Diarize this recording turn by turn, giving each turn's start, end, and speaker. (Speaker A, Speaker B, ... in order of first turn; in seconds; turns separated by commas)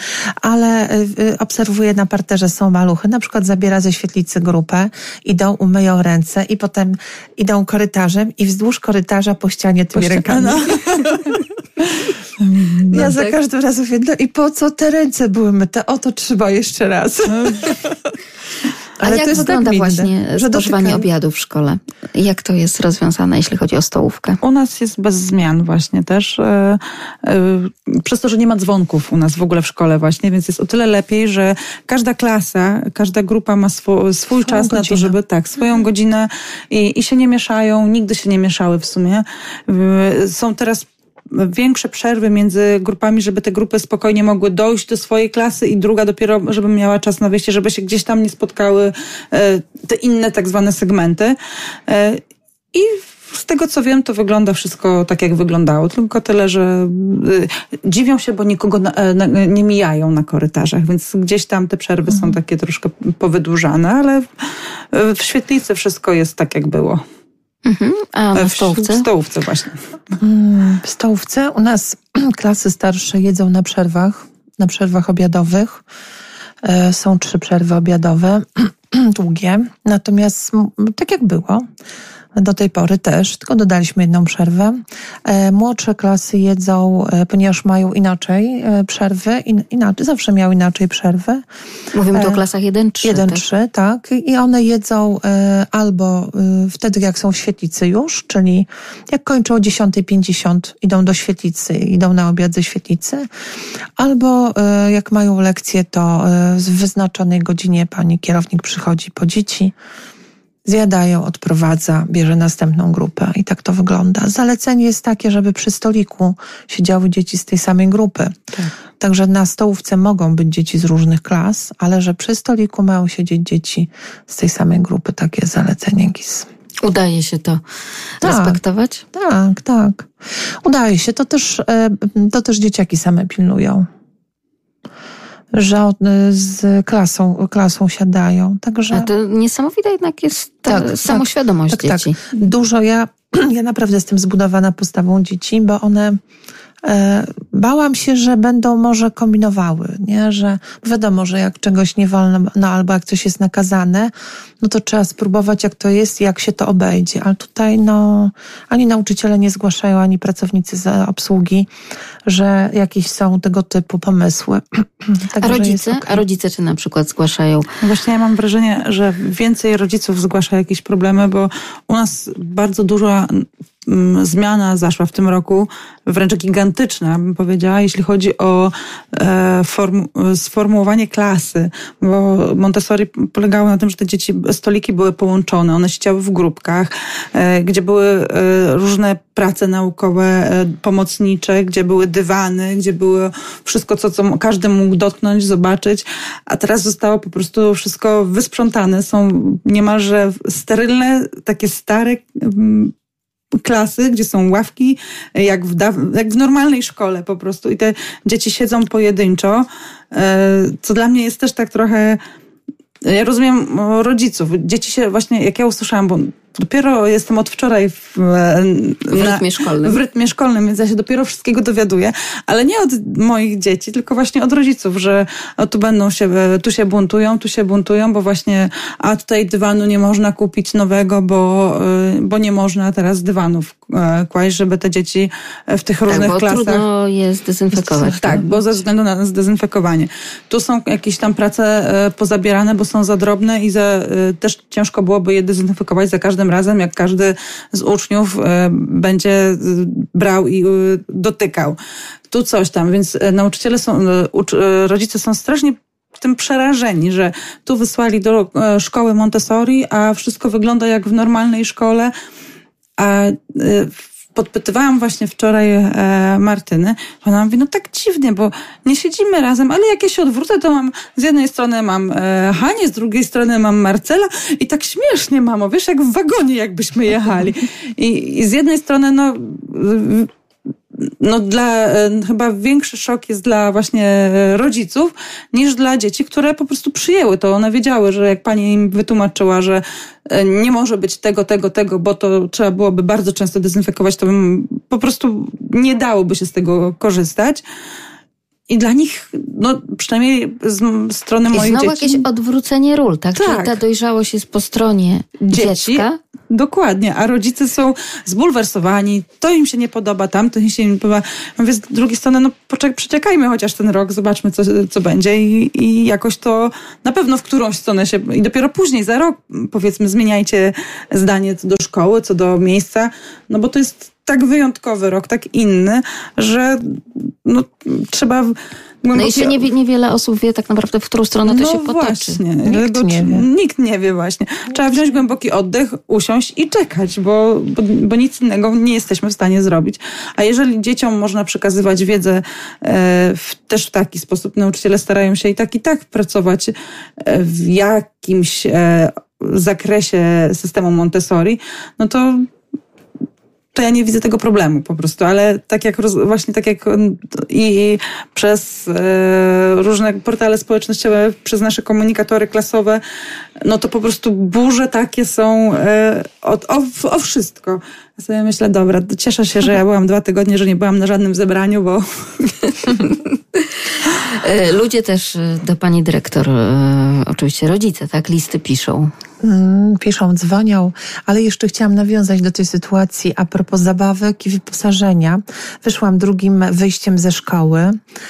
Speaker A: 0.4-10.8, Speaker B: 9.9-13.3, Speaker A: 12.9-18.0, Speaker B: 17.3-17.7, Speaker A: 19.0-21.1, Speaker C: 19.0-24.4, Speaker B: 24.4-51.3, Speaker A: 34.4-35.1, Speaker B: 51.9-67.0, Speaker C: 67.6-69.1, Speaker B: 68.3-69.8, Speaker A: 70.2-75.8, Speaker A: 76.6-81.7, Speaker A: 82.3-91.4, Speaker C: 91.9-93.4, Speaker A: 92.1-92.4, Speaker A: 93.0-103.3, Speaker A: 104.0-109.7, Speaker A: 110.7-118.4, Speaker A: 119.0-126.5, Speaker C: 126.8-127.6, Speaker C: 128.2-129.0, Speaker A: 128.2-128.6, Speaker A: 129.1-130.1, Speaker A: 130.6-133.9, Speaker A: 135.5-139.1, Speaker C: 138.9-142.2, Speaker A: 140.7-146.2, Speaker A: 146.8-161.7, Speaker A: 162.3-166.2, Speaker C: 165.4-167.7, Speaker B: 167.8-202.9, Speaker B: 203.6-212.2, Speaker B: 213.0-236.8, Speaker C: 219.1-220.0, Speaker C: 236.1-238.4, Speaker A: 237.9-238.4, Speaker B: 238.1-251.8, Speaker B: 252.3-262.1, Speaker B: 263.0-280.3, Speaker B: 281.0-297.6, Speaker B: 298.7-302.2, Speaker C: 301.5-306.2, Speaker B: 303.3-303.8, Speaker B: 305.5-329.6, Speaker C: 329.1-332.4, Speaker B: 331.4-352.5, Speaker A: 332.6-333.4, Speaker B: 353.7-363.0, Speaker B: 363.6-372.9, Speaker C: 372.9-379.1, Speaker A: 379.4-388.0